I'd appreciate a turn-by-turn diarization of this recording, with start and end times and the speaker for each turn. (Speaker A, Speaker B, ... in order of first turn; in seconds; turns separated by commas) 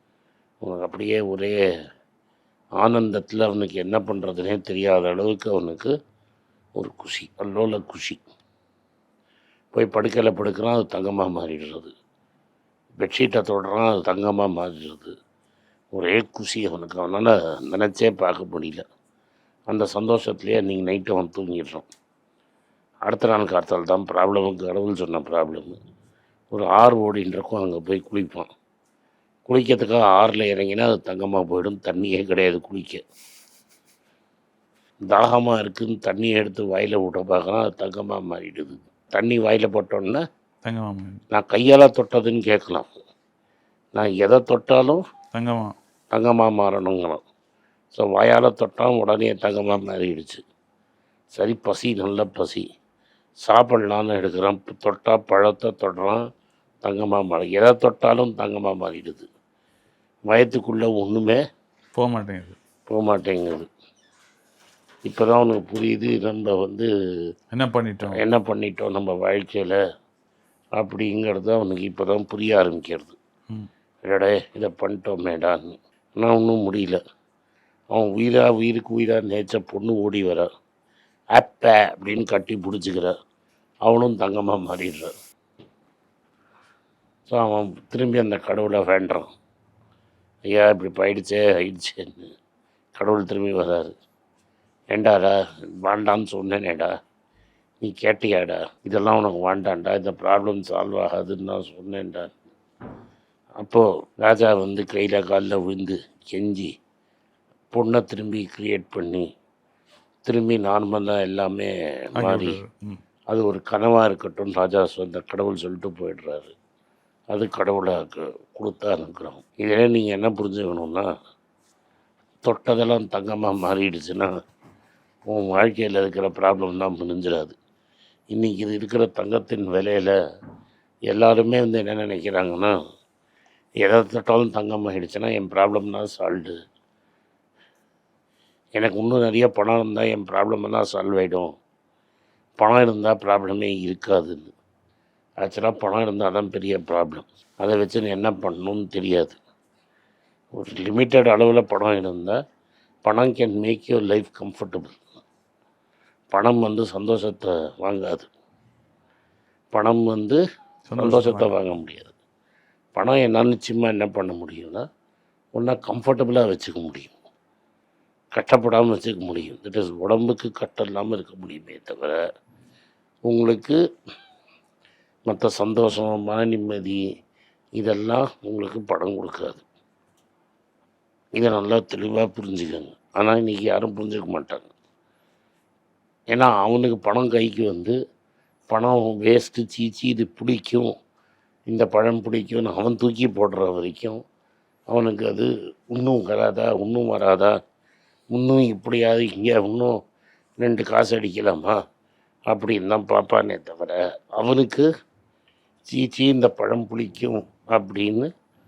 Speaker A: 0.6-1.5, Speaker A: 2.8-5.9, Speaker A: 6.8-8.2, Speaker A: 9.7-11.9, Speaker A: 13.0-15.1, Speaker A: 15.9-18.8, Speaker A: 19.7-21.9, Speaker A: 23.0-25.7, Speaker A: 26.5-28.5, Speaker A: 29.5-33.0, Speaker A: 35.1-40.2, Speaker B: 40.6-41.2, Speaker A: 41.3-42.9, Speaker A: 43.9-45.0, Speaker B: 45.3-45.7, Speaker A: 46.1-47.2, Speaker A: 47.9-50.4, Speaker A: 51.3-52.6, Speaker A: 53.5-56.2, Speaker A: 56.8-59.2, Speaker A: 60.3-61.4, Speaker B: 61.9-62.6, Speaker A: 62.9-63.7, Speaker A: 65.1-66.9, Speaker B: 67.5-68.2, Speaker A: 68.1-69.8, Speaker A: 70.8-73.2, Speaker A: 74.1-77.0, Speaker A: 77.9-80.5, Speaker A: 81.3-83.1, Speaker A: 83.8-85.1, Speaker A: 87.3-89.2, Speaker A: 90.5-92.2, Speaker A: 93.0-93.9, Speaker A: 94.9-96.9, Speaker A: 97.8-102.3, Speaker A: 103.6-106.7, Speaker A: 107.7-109.2, Speaker A: 110.2-112.6, Speaker B: 112.2-113.0, Speaker A: 113.3-116.5, Speaker A: 117.3-121.1, Speaker A: 122.5-124.3, Speaker A: 125.3-127.5, Speaker A: 128.3-130.1, Speaker A: 131.1-132.7, Speaker A: 133.8-136.5, Speaker A: 138.8-141.5, Speaker A: 142.6-144.5, Speaker A: 145.4-149.4, Speaker A: 150.6-152.3, Speaker A: 153.1-155.0, Speaker A: 156.3-158.3, Speaker A: 159.7-160.4, Speaker B: 160.9-161.5, Speaker A: 161.0-162.1, Speaker A: 162.9-164.8, Speaker A: 165.6-167.1, Speaker A: 168.3-172.2, Speaker A: 173.3-173.8, Speaker A: 175.3-177.0, Speaker A: 177.8-179.6, Speaker A: 181.4-184.7, Speaker A: 186.3-187.9, Speaker A: 188.7-190.9, Speaker A: 191.7-194.2, Speaker A: 194.9-197.5, Speaker A: 198.3-199.9, Speaker A: 200.6-201.7, Speaker A: 202.5-204.9, Speaker A: 205.9-208.3